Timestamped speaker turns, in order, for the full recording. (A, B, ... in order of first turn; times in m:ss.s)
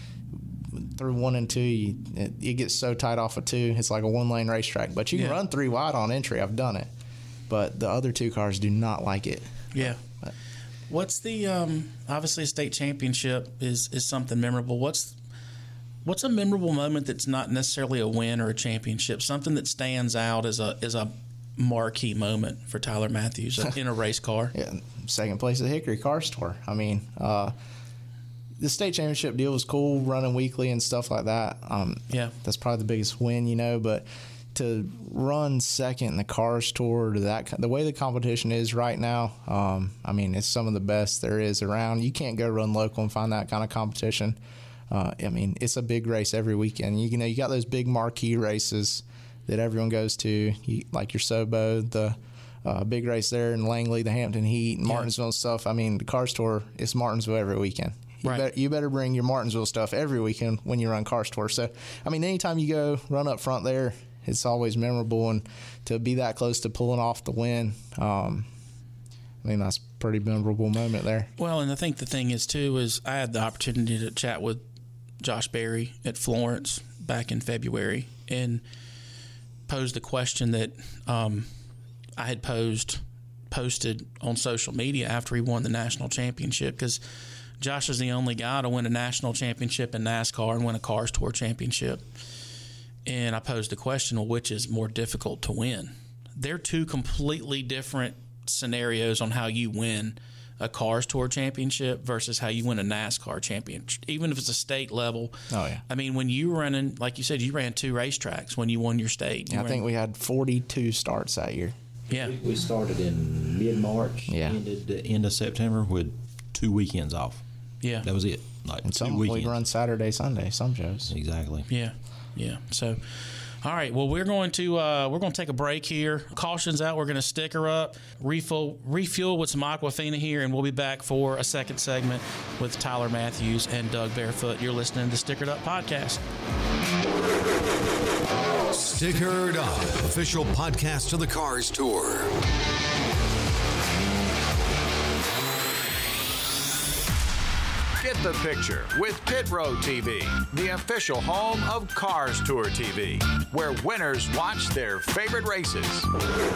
0:00.3-0:06.9 A
0:05.1-0:05.4 B
0:07.5-0:10.3 A
0:09.7-0:10.0 B
0:10.9-0:15.2 B
0:16.0-0:24.5 B
0:24.5-0:27.6 A
0:28.6-0:44.4 A
0:44.9-1:08.5 A
1:09.4-1:11.3 A
1:11.4-1:14.6 B
1:15.2-1:18.6 B
1:19.7-1:21.5 B
1:22.2-1:27.0 B
1:27.6-1:32.0 B
1:33.0-1:45.3 B
1:45.5-1:45.8 A
1:45.9-1:49.8 B
1:49.5-1:51.8 A
1:52.1-1:52.4 B
1:52.1-1:57.4 C
1:54.3-1:54.6 A
1:57.8-1:58.1 B
1:58.0-1:59.5 C
1:58.8-2:01.1 A
2:01.1-2:01.7 C
2:01.7-2:16.2 B
2:18.7-2:22.3 D
2:28.0-2:36.1 E